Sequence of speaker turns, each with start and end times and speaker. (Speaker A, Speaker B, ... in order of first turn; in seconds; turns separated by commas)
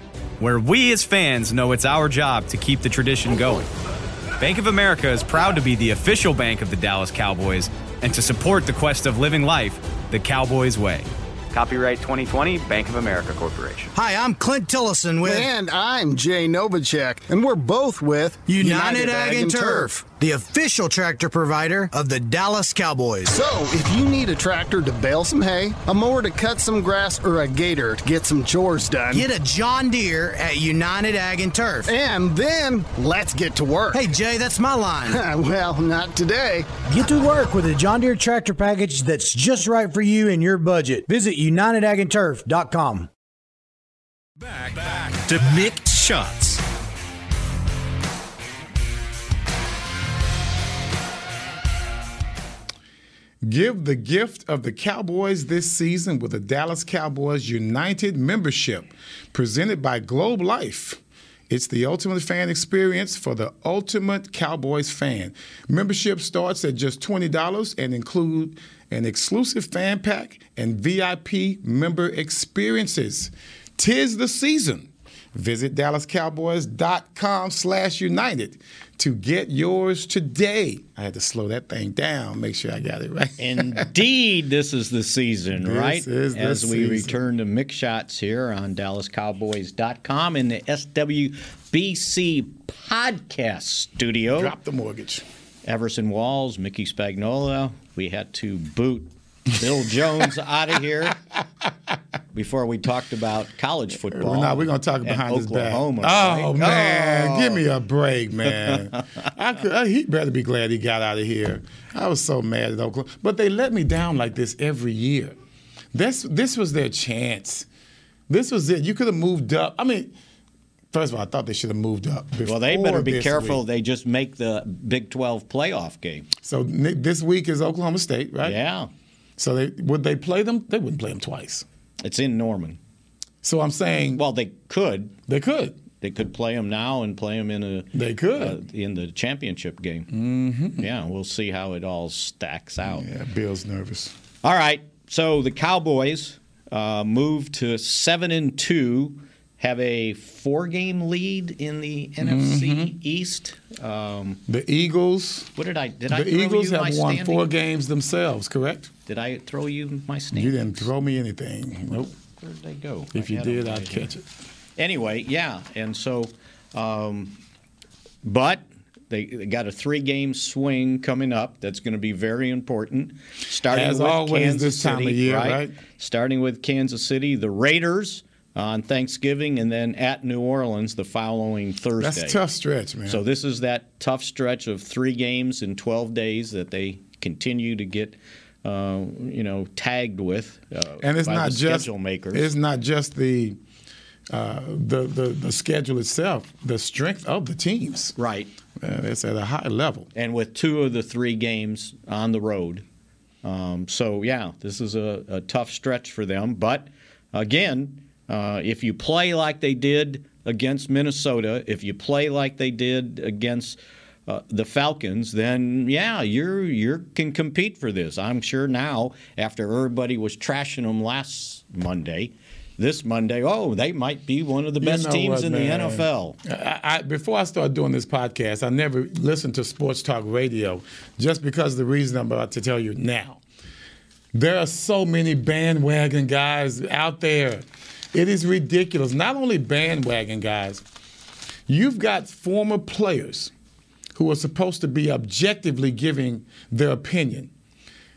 Speaker A: 0.4-3.7, Speaker A: 4.4-13.9, Speaker B: 13.9-15.5, Speaker C: 15.2-19.9, Speaker B: 18.5-23.4, Speaker C: 23.3-29.3, Speaker B: 29.1-31.9, Speaker C: 31.9-34.1, Speaker B: 33.9-35.2, Speaker C: 35.1-36.8, Speaker B: 36.9-43.1, Speaker D: 53.4-83.9, Speaker E: 83.4-94.5, Speaker D: 85.5-87.2, Speaker D: 94.3-95.2, Speaker E: 95.7-101.2, Speaker E: 102.3-107.6, Speaker D: 104.1-115.3, Speaker E: 108.5-109.0, Speaker D: 115.9-117.7, Speaker D: 118.3-120.1, Speaker D: 120.9-123.6, Speaker E: 122.5-126.3, Speaker D: 126.4-128.6, Speaker E: 128.4-128.9, Speaker D: 129.4-131.7, Speaker E: 132.0-132.8, Speaker D: 133.4-134.2, Speaker E: 134.2-135.2, Speaker D: 135.3-135.8, Speaker E: 136.0-140.1, Speaker D: 137.9-138.6, Speaker D: 140.1-140.9, Speaker E: 140.8-143.1, Speaker D: 142.8-144.1, Speaker E: 144.4-154.4, Speaker D: 152.2-153.0, Speaker D: 154.5-155.5, Speaker E: 155.6-157.5, Speaker D: 156.1-158.9, Speaker E: 159.1-160.9, Speaker D: 160.3-162.1, Speaker E: 162.4-164.1, Speaker D: 163.1-164.2, Speaker E: 164.8-167.4, Speaker E: 168.2-182.4, Speaker D: 173.7-175.8, Speaker D: 182.0-183.2, Speaker E: 183.1-192.5, Speaker D: 191.0-193.6, Speaker D: 194.3-198.2, Speaker E: 198.2-198.5, Speaker D: 198.8-200.1, Speaker E: 200.2-202.8, Speaker E: 203.4-226.4, Speaker D: 224.8-233.4, Speaker D: 234.3-240.8, Speaker D: 241.7-243.5, Speaker D: 244.2-247.5